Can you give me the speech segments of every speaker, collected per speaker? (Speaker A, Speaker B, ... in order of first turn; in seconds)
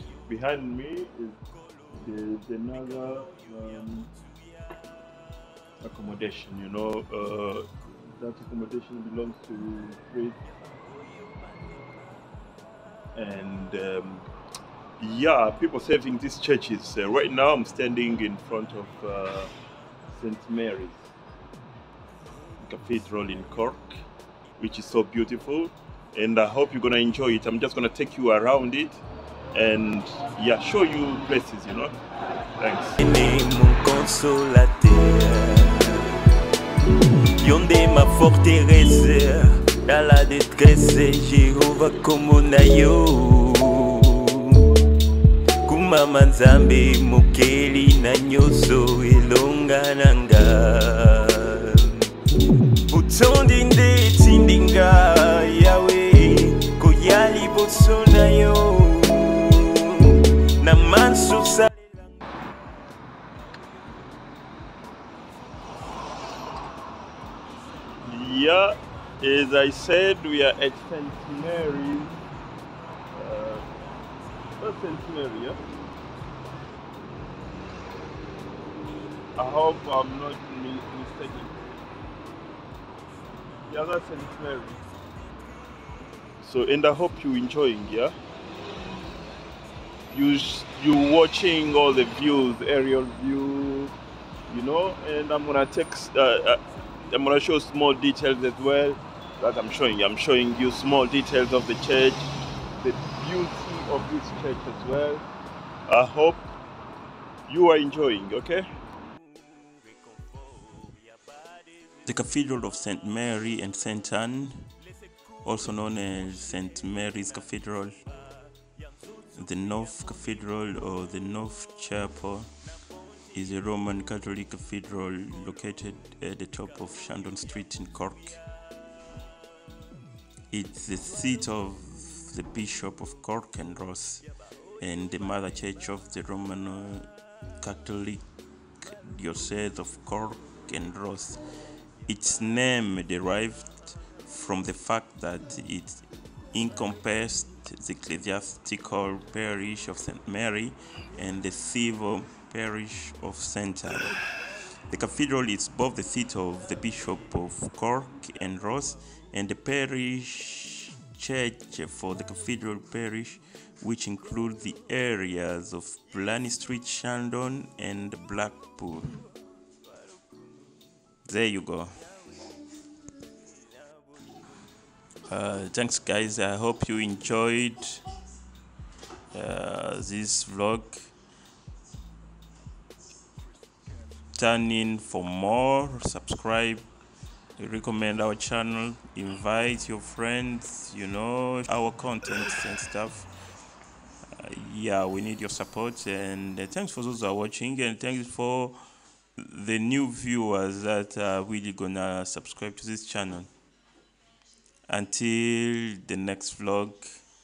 Speaker A: 0.3-1.4, 1.9-4.1, 5.8-7.6, 8.2-10.4, 13.1-14.2, 15.0-19.5, 20.1-21.1, 22.6-24.0, 24.6-29.0, 29.5-31.9, 32.6-33.0, 68.0-72.1, 73.1-73.6, 74.6-75.6, 79.3-81.6, 83.7-84.8, 86.4-88.1, 90.1-93.9, 94.5-96.6, 97.1-102.3, 102.8-105.2, 105.9-106.4, 107.5-108.7
Speaker B: 33.0-36.2, 37.4-44.8, 45.6-52.1, 52.9-61.8, 112.1-114.5, 115.5-117.9, 119.4-122.4, 123.4-128.3, 134.8-135.2, 136.2-136.6, 139.3-139.9, 144.7-145.2, 148.7-150.5, 151.2-152.1, 153.3-153.7, 156.9-157.2, 159.6-159.9, 161.2-169.2, 171.4-172.0, 175.3-178.0, 179.4-181.0, 184.4-186.8, 187.6-191.8, 192.4-192.7, 194.4-198.7, 199.4-203.4, 205.0-207.0
Speaker C: 112.0-114.7, 115.4-117.8, 119.4-122.4, 123.3-128.4, 130.5-134.2, 134.8-137.1, 137.6-138.2, 138.8-141.4, 142.1-146.0, 146.5-154.1, 154.9-163.4, 164.6-168.8, 171.3-171.8, 175.3-176.4, 177.5-178.0, 179.3-180.8, 184.4-186.8, 187.6-189.2, 190.4-193.3, 194.8-197.8, 199.8-201.6, 202.4-203.4, 204.9-205.5